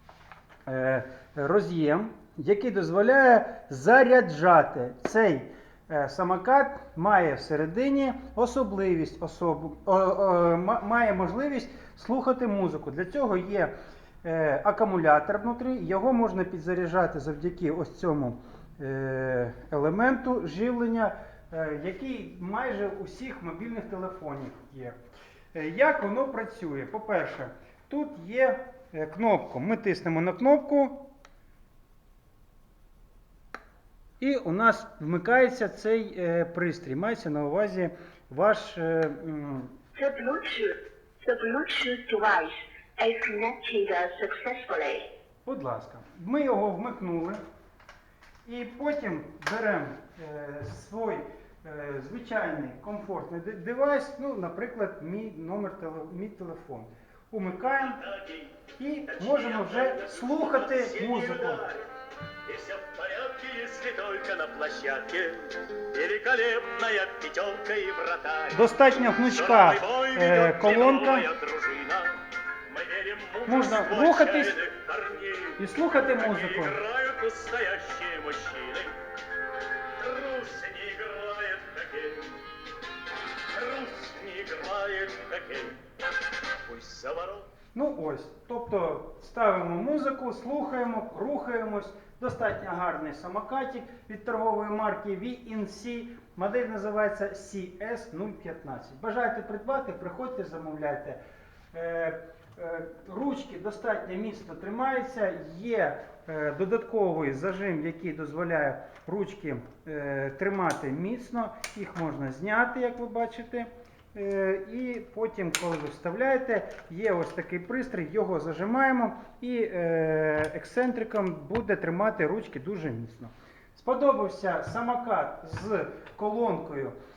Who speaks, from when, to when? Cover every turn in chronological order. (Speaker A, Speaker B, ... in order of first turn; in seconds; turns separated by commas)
Speaker A: 0.7-25.0, Speaker A: 25.5-31.1, Speaker A: 34.2-39.8, Speaker B: 40.0-45.1, Speaker A: 45.5-47.4, Speaker A: 48.5-58.0, Speaker C: 57.8-61.9, Speaker A: 58.8-61.7, Speaker C: 62.5-79.0, Speaker A: 68.5-71.3, Speaker A: 73.5-74.6, Speaker A: 75.6-76.8, Speaker C: 80.0-82.4, Speaker C: 83.5-85.8, Speaker C: 86.6-87.5, Speaker A: 87.7-101.2, Speaker A: 101.7-127.0